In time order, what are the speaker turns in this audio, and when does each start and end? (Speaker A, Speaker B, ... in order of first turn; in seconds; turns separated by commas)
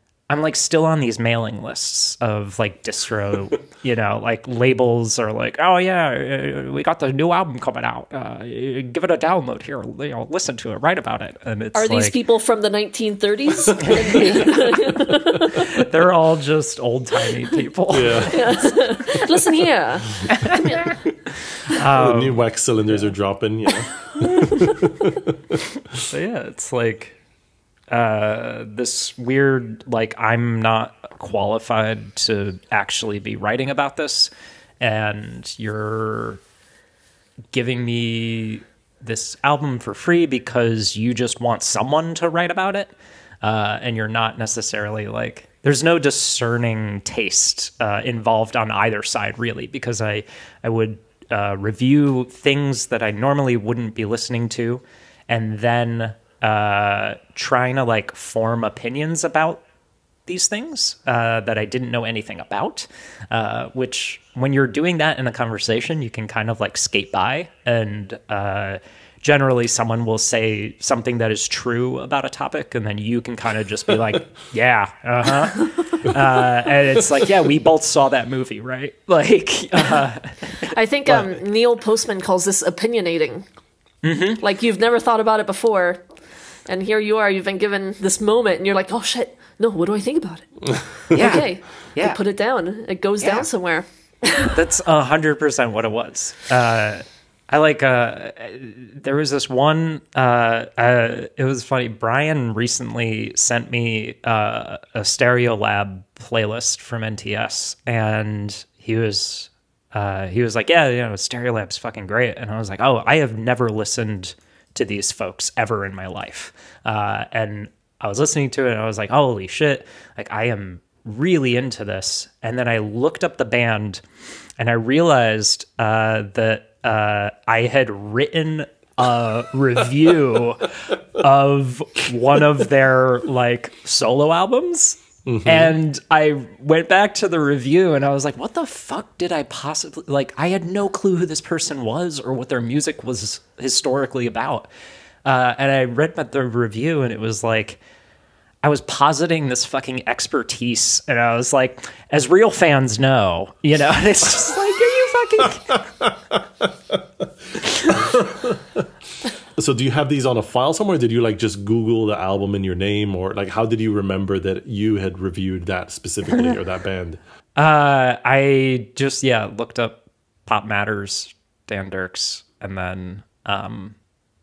Speaker A: 0.3-12.1, Speaker B: 11.8-15.7, Speaker A: 13.8-14.5, Speaker A: 15.4-19.0, Speaker C: 17.9-18.5, Speaker B: 18.2-20.9, Speaker A: 20.3-21.0, Speaker A: 21.7-22.4, Speaker C: 21.9-26.0, Speaker A: 26.1-27.2, Speaker A: 27.9-36.4, Speaker A: 37.5-59.6, Speaker A: 60.3-80.7, Speaker B: 80.7-83.5, Speaker A: 84.0-84.4, Speaker B: 84.4-86.0, Speaker B: 86.7-94.5, Speaker C: 90.7-91.4, Speaker A: 91.1-92.2, Speaker A: 93.2-93.5, Speaker A: 94.5-124.0, Speaker A: 124.6-144.7, Speaker C: 135.3-135.7, Speaker A: 145.2-147.8, Speaker A: 148.6-155.8, Speaker C: 155.7-158.9, Speaker C: 159.6-167.2, Speaker A: 167.6-174.0